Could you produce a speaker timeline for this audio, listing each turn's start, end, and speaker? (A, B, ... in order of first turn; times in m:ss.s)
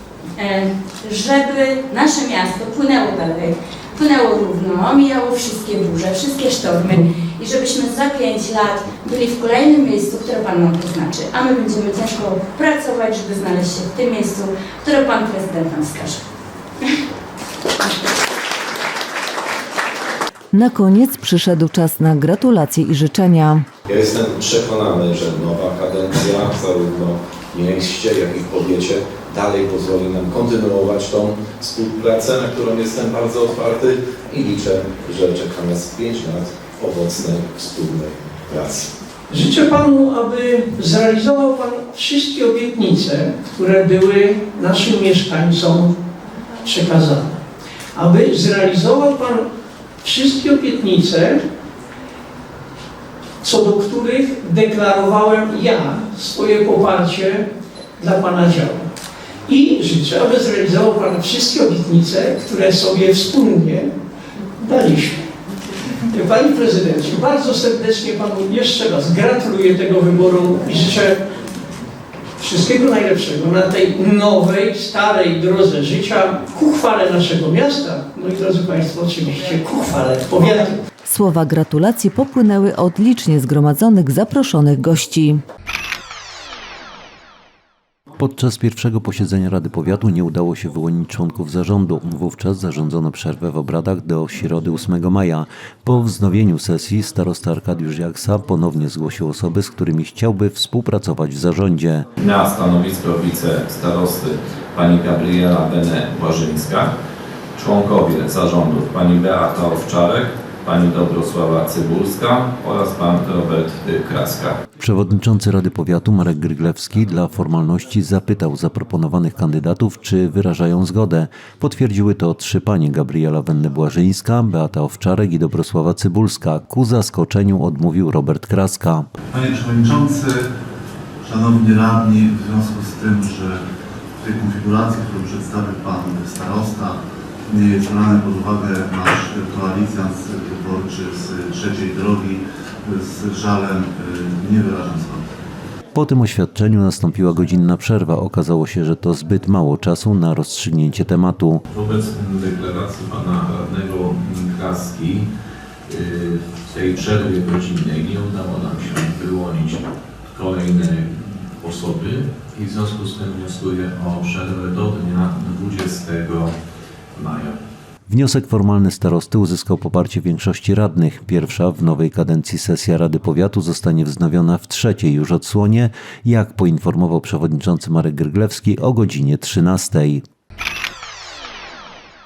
0:00.4-0:16.2 A
0:20.5-0:23.6 B
0:23.8-0:38.9 C
0:39.3-0:46.0 D
0:46.6-0:47.4 D
0:47.9-0:49.5 D
0:50.0-0:51.4 D
0:53.4-0:57.4 D
0:58.0-0:58.9 D
0:59.5-1:03.9 D
1:04.6-1:05.2 D
1:06.1-1:11.2 D
1:12.4-1:20.8 D
1:21.1-1:25.4 B
1:28.2-1:42.0 E
1:42.2-1:46.9 F
1:47.6-1:54.6 F
1:54.8-2:09.1 E
2:09.3-2:10.5 G
2:11.2-2:13.6 G
2:14.2-2:25.2 G
2:25.9-2:31.6 E
2:31.8-2:35.3 F
2:35.9-2:39.8 F
2:40.4-2:41.1 F
2:41.6-2:46.5 F
2:42.4-2:46.4 C
2:47.2-2:47.5 C
2:47.2-2:47.5 F
2:48.1-3:00.2 E